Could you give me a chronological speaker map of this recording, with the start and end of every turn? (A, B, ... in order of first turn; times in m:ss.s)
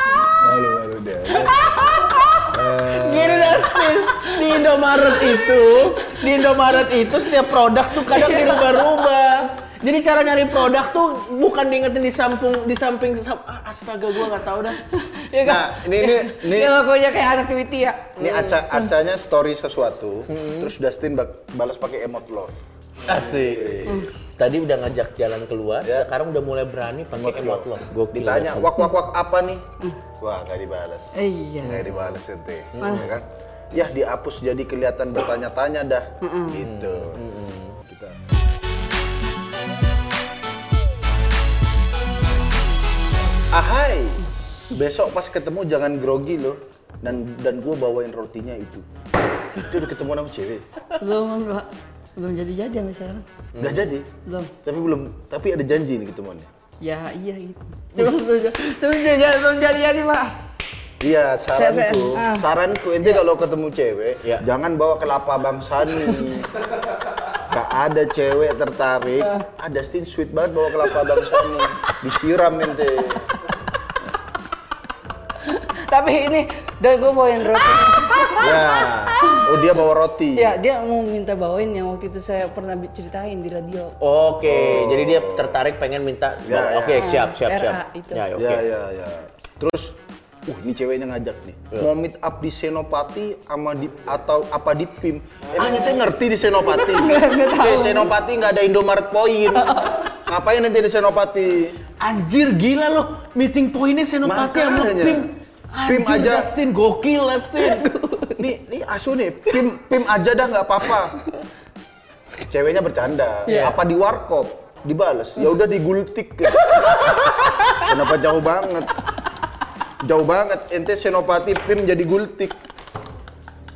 0:00.4-0:01.8 A
0:01.3-0:14.8 B
0:02.5-0:03.8 A
0:08.0-0:09.0 C
0:14.8-0:18.3 C
0:15.4-0:16.8 A
0:18.2-0:24.1 A
0:18.2-0:18.6 B
0:20.3-0:20.7 B
0:23.1-0:28.8 B
0:23.8-0:24.1 C
0:27.1-0:29.6 A
0:30.2-0:37.2 A
0:31.1-0:31.8 C
0:31.6-0:32.2 B
0:32.7-0:33.1 B
0:32.8-0:33.0 C
0:36.2-0:36.6 C
0:36.6-0:37.8 B
0:37.8-0:38.2 A
0:43.5-0:48.8 A
0:49.5-0:50.6 A
0:51.0-0:53.2 C
0:53.5-0:53.8 B
0:53.6-0:54.1 A
0:54.2-0:54.5 C
0:54.6-0:56.5 A
0:56.8-1:00.4 C
0:58.0-0:58.4 B
1:01.0-1:06.5 A
1:01.5-1:02.4 C
1:07.5-1:13.3 A
1:15.4-1:19.5 C
1:18.4-1:20.5 A
1:20.3-1:23.9 C
1:24.0-1:28.6 B
1:24.4-1:25.6 A
1:26.4-1:27.1 A
1:27.0-1:28.2 C
1:28.3-1:41.8 A
1:35.6-1:36.0 B
1:36.8-1:38.1 C
1:39.6-1:40.0 C
1:42.0-1:47.9 B
1:44.2-1:45.3 A
1:45.8-1:46.5 A
1:47.6-1:48.3 C
1:48.4-1:51.2 A
1:52.4-1:57.0 A
1:53.5-1:53.7 C
1:53.5-1:53.8 B
1:57.1-1:57.8 B
1:57.8-1:59.0 A
2:00.0-2:02.6 A